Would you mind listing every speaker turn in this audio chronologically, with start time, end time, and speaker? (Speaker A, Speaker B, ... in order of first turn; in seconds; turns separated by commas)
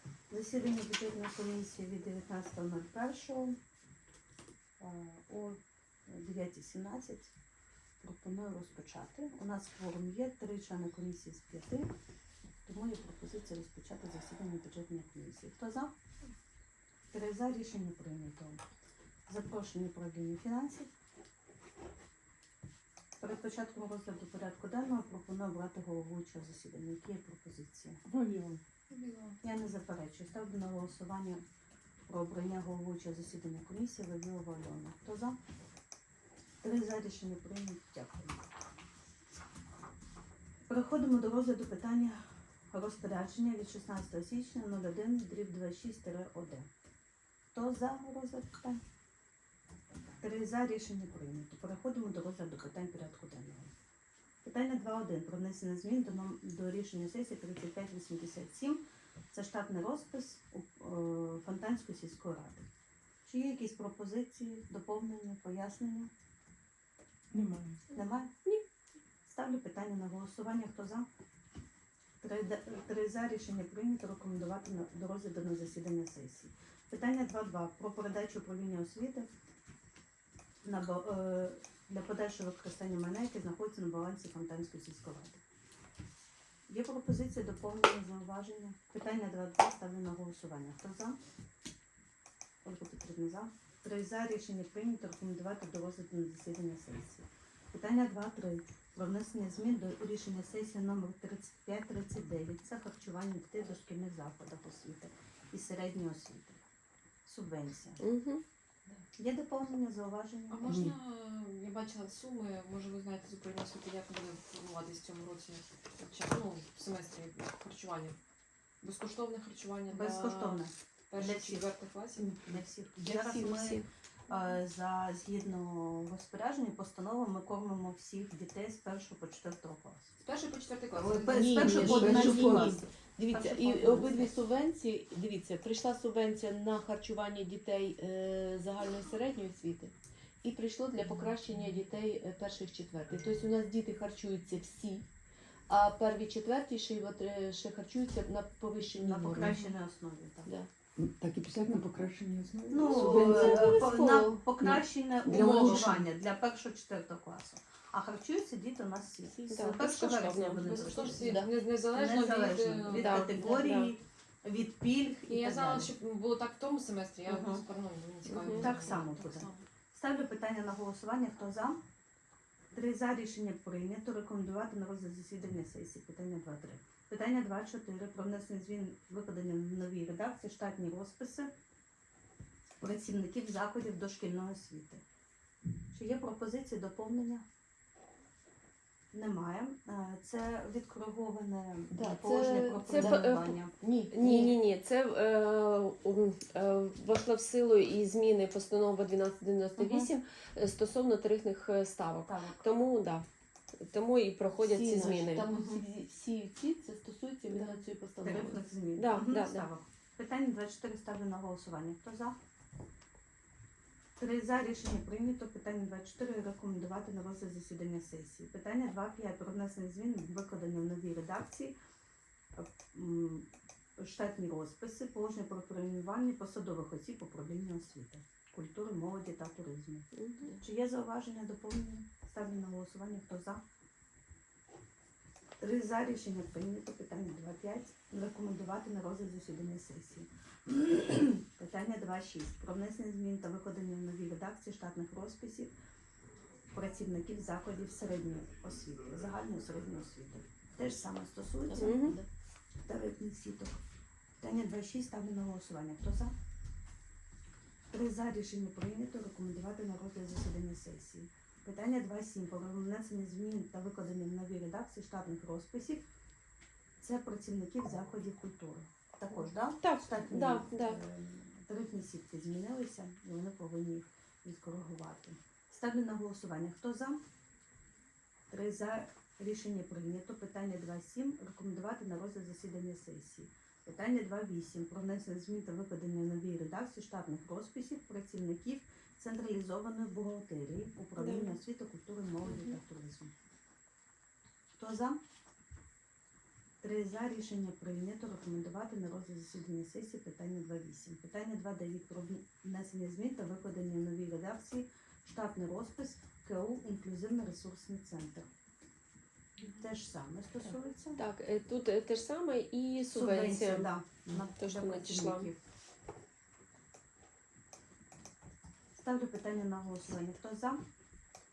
Speaker A: 0.3-3.5, Speaker A: 4.8-7.3, Speaker A: 8.0-11.9, Speaker A: 12.7-15.9, Speaker A: 17.1-18.6, Speaker A: 19.3-20.9, Speaker A: 23.2-28.0, Speaker B: 28.1-28.6, Speaker C: 28.9-29.4, Speaker A: 29.4-31.4, Speaker A: 32.1-35.4, Speaker A: 36.6-38.4, Speaker A: 40.7-42.2, Speaker A: 42.7-46.7, Speaker A: 47.5-48.8, Speaker A: 50.2-53.7, Speaker A: 54.4-62.7, Speaker A: 63.2-66.1, Speaker B: 67.3-67.8, Speaker A: 67.9-68.3, Speaker D: 68.0-68.6, Speaker A: 69.2-71.1, Speaker A: 72.2-79.3, Speaker A: 80.6-85.4, Speaker A: 86.7-91.2, Speaker A: 92.6-106.6, Speaker A: 107.2-108.0, Speaker D: 108.0-108.4, Speaker A: 109.2-110.8, Speaker C: 110.5-118.2, Speaker B: 110.6-111.0, Speaker C: 118.8-122.6, Speaker A: 119.9-130.1, Speaker E: 123.0-123.8, Speaker C: 130.2-132.2, Speaker A: 131.0-134.3, Speaker E: 131.3-145.1, Speaker B: 131.6-132.7, Speaker E: 145.7-149.6, Speaker A: 148.9-150.5, Speaker E: 150.4-150.7, Speaker B: 151.0-153.8, Speaker A: 152.7-165.9, Speaker E: 152.8-154.8, Speaker B: 155.2-156.0, Speaker C: 155.3-156.0, Speaker E: 159.3-159.7, Speaker D: 159.5-161.0, Speaker C: 160.6-163.6, Speaker E: 161.2-161.5, Speaker D: 162.9-163.9, Speaker C: 165.3-169.7, Speaker A: 167.2-167.6, Speaker D: 168.3-168.8, Speaker A: 168.5-171.8, Speaker A: 172.7-181.5, Speaker A: 182.8-185.0, Speaker A: 185.9-187.4, Speaker A: 189.1-193.7, Speaker E: 191.9-194.6, Speaker D: 192.9-193.5, Speaker D: 194.1-203.2, Speaker A: 199.8-200.1, Speaker A: 202.2-202.7, Speaker D: 203.8-205.5, Speaker E: 204.6-208.7, Speaker A: 205.5-205.8, Speaker D: 207.5-207.8, Speaker A: 208.2-212.3, Speaker D: 209.0-209.7, Speaker A: 214.2-221.8, Speaker A: 222.5-233.6, Speaker D: 230.2-230.5, Speaker A: 235.6-245.7, Speaker A: 246.7-252.1, Speaker E: 251.7-252.3, Speaker D: 251.8-252.2, Speaker A: 252.8-253.8, Speaker A: 254.4-256.3, Speaker A: 257.9-266.0, Speaker A: 267.0-277.2, Speaker D: 269.8-271.0, Speaker A: 278.5-293.3, Speaker D: 291.2-291.6, Speaker A: 294.8-295.2, Speaker A: 296.8-308.5, Speaker A: 309.6-311.2, Speaker D: 311.1-313.9, Speaker A: 313.1-315.6, Speaker D: 314.5-315.5, Speaker A: 318.9-320.8